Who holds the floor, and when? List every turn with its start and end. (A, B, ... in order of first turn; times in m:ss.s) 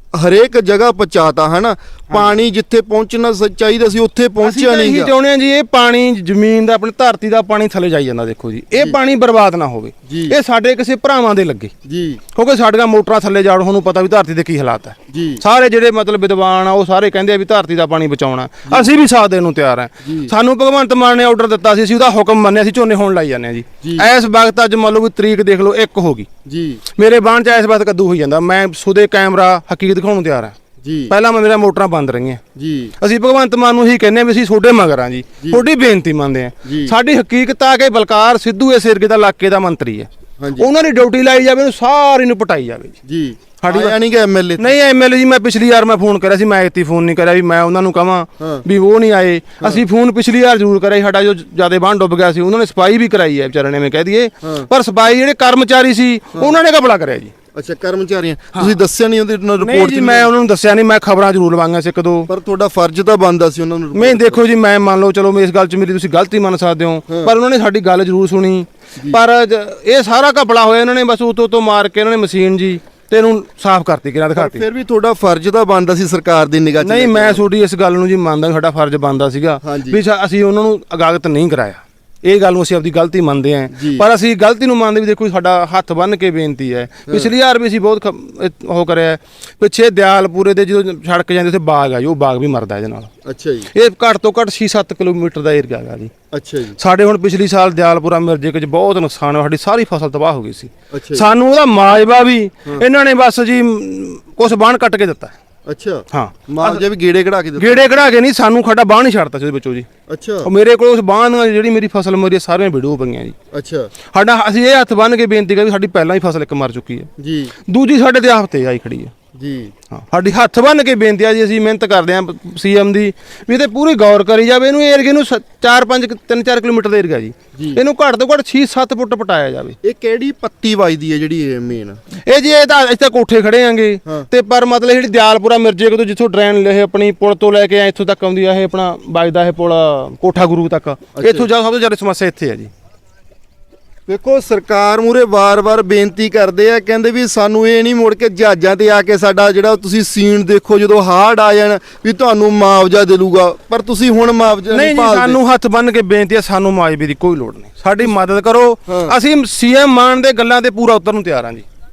0:00.1-0:05.1 A
0:04.4-0:11.7 B
0:10.1-0:10.4 A
0:11.8-0:12.2 A
0:12.3-0:26.3 B
0:15.1-0:15.4 A
0:20.0-0:20.3 A
0:26.5-0:26.8 A
0:27.0-0:30.5 B
0:30.8-0:31.1 A
0:31.1-0:32.4 B
0:32.6-0:32.9 A
0:33.0-0:43.0 B
0:36.6-0:36.9 A
0:40.4-0:40.7 A
0:43.0-0:44.7 A
0:43.6-0:44.0 B
0:44.6-0:57.3 B
0:48.4-0:48.6 A
0:57.5-1:00.3 A
0:59.6-1:02.3 B
1:02.3-1:04.4 A
1:03.9-1:14.6 B
1:07.1-1:07.3 A
1:14.3-1:17.4 A
1:16.8-1:33.1 B
1:19.6-1:20.0 A
1:23.7-1:24.0 A
1:33.2-1:33.7 A
1:33.7-1:36.1 B
1:36.3-1:36.8 A
1:36.8-1:45.3 B
1:40.9-1:41.3 A
1:45.6-1:47.8 A
1:46.1-1:46.8 B
1:47.6-1:49.9 B
1:50.1-1:50.5 A
1:50.4-1:53.3 B
1:53.5-1:53.9 A
1:54.1-1:57.1 B
1:57.2-1:57.5 A
1:57.7-1:59.1 B
1:59.4-1:59.7 A
1:59.9-2:09.8 B
2:09.8-2:12.0 A
2:12.2-2:22.7 B
2:21.2-2:21.5 A
2:24.1-2:35.4 A
2:34.7-2:41.6 B
2:38.9-2:39.1 A